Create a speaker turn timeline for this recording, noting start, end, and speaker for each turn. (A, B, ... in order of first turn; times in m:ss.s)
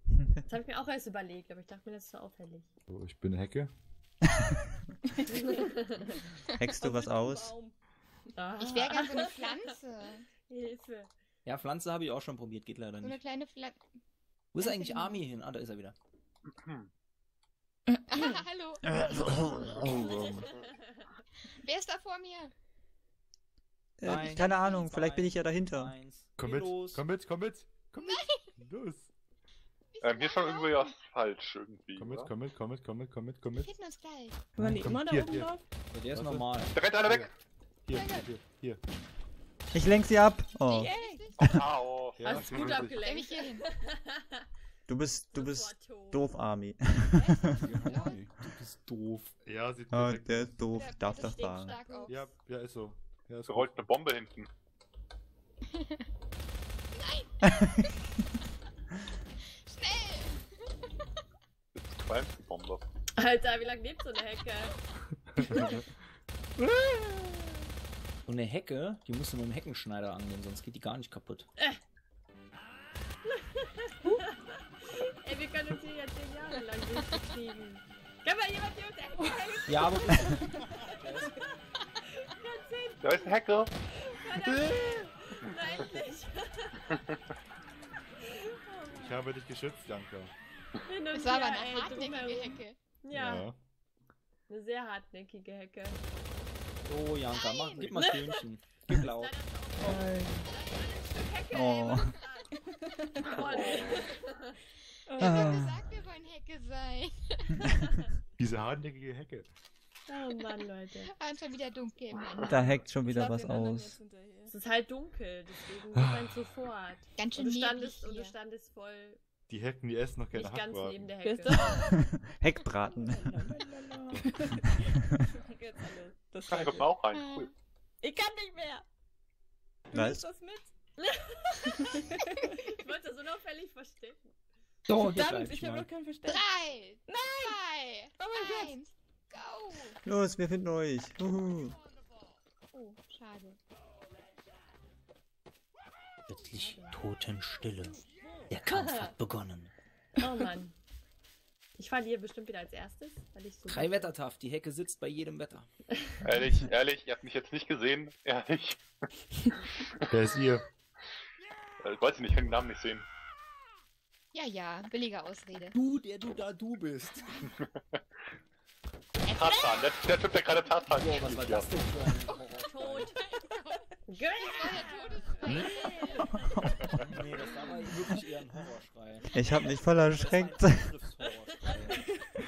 0:00.2-0:00.4 A
0:00.5-0:02.7 B
0:02.9-0:03.7 C
0:05.3-0:06.2 B
0:06.6-0:07.6 A
0:06.8-0:07.8 D
0:08.4-0:09.6 B
0:08.6-0:10.3 E
0:10.5-0:11.1 B
0:11.4-0:13.2 F
0:13.0-0:13.8 E
0:14.5-0:16.0 F
0:14.6-0:15.3 E
0:16.5-0:16.9 G
0:18.1-0:18.8 E
0:18.8-0:20.4 A
0:19.8-0:20.3 E
0:19.9-0:20.8 B
0:21.5-0:22.5 E
0:24.0-0:25.9 A
0:24.0-0:27.0 F
0:26.4-0:29.1 C
0:28.0-0:28.5 E
0:29.9-0:31.0 E
0:30.0-0:32.3 G
0:32.0-0:33.7 C
0:33.5-0:34.5 E
0:34.6-0:35.6 C
0:34.6-0:35.6 D
0:35.9-0:36.8 F
0:36.1-0:37.3 C
0:36.7-0:37.3 G
0:37.9-0:38.8 C
0:37.9-0:38.3 E
0:39.7-0:41.6 A
0:40.7-0:41.4 D
0:40.8-0:41.5 E
0:41.4-0:42.9 G
0:42.2-0:43.0 C
0:42.2-0:44.4 B
0:42.9-0:43.6 E
0:44.9-0:47.7 A
0:45.3-0:46.3 B
0:47.1-0:48.2 E
0:47.7-0:49.4 F
0:47.8-0:48.2 C
0:49.4-0:50.6 C
0:49.9-0:51.8 A
0:50.7-0:52.2 E
0:51.1-0:52.4 B
0:52.1-0:53.9 C
0:53.5-0:54.5 G
0:55.8-0:56.1 E
0:56.9-0:58.2 E
0:59.5-1:00.7 E
1:01.8-1:02.8 G
1:03.2-1:04.8 B
1:08.3-1:11.5 F
1:13.3-1:20.2 B
1:19.2-1:19.5 D
1:19.7-1:21.4 F
1:20.3-1:20.6 D
1:22.2-1:23.4 B
1:23.0-1:23.7 G
1:23.9-1:26.9 B
1:28.2-1:29.3 B
1:28.9-1:30.3 C
1:30.8-1:33.5 B
1:31.1-1:32.8 E
1:33.1-1:33.6 C
1:34.5-1:36.0 B
1:36.8-1:39.4 F
1:37.3-1:38.0 E
1:39.0-1:42.5 B
1:39.8-1:40.3 A
1:41.5-1:42.2 A
1:43.2-1:44.5 B
1:43.4-1:43.7 G
1:45.1-1:45.7 D
1:45.1-1:47.7 E
1:45.2-1:45.8 A
1:48.4-1:49.5 C
1:50.1-1:51.1 B
1:51.0-1:52.8 E
1:52.4-1:54.0 A
1:53.0-1:54.5 D
1:54.5-1:59.2 B
1:55.9-1:56.4 C
1:57.2-1:58.4 E
1:59.5-2:01.1 C
2:00.3-2:01.8 B
2:01.2-2:01.9 D
2:01.8-2:03.5 A
2:02.8-2:04.7 D
2:05.4-2:07.0 D
2:06.5-2:07.5 G
2:07.1-2:07.5 E
2:08.0-2:08.8 D
2:09.9-2:10.7 D
2:09.9-2:10.3 A
2:11.0-2:11.7 B
2:11.6-2:12.5 D
2:12.5-2:14.3 B
2:14.9-2:15.9 F
2:14.9-2:16.5 D
2:16.2-2:20.0 E
2:17.1-2:17.6 D
2:18.2-2:18.8 D
2:20.0-2:21.8 A
2:22.7-2:23.6 E
2:26.3-2:29.7 F
2:26.5-2:27.0 B
2:28.7-2:29.1 B
2:30.2-2:30.8 B
2:31.8-2:34.1 B
2:33.7-2:35.7 F
2:36.2-2:39.1 G
2:39.7-2:40.2 G
2:40.1-2:40.6 C
2:41.8-2:43.1 G
2:44.3-2:45.8 E
2:45.7-2:47.3 F
2:47.5-2:48.0 G
2:49.3-2:50.0 E
2:49.3-2:51.8 G
2:51.0-2:53.1 F
2:52.6-2:56.0 B
2:53.2-2:56.3 E
2:56.9-2:59.3 F
2:59.3-3:00.9 A
3:00.0-3:02.1 F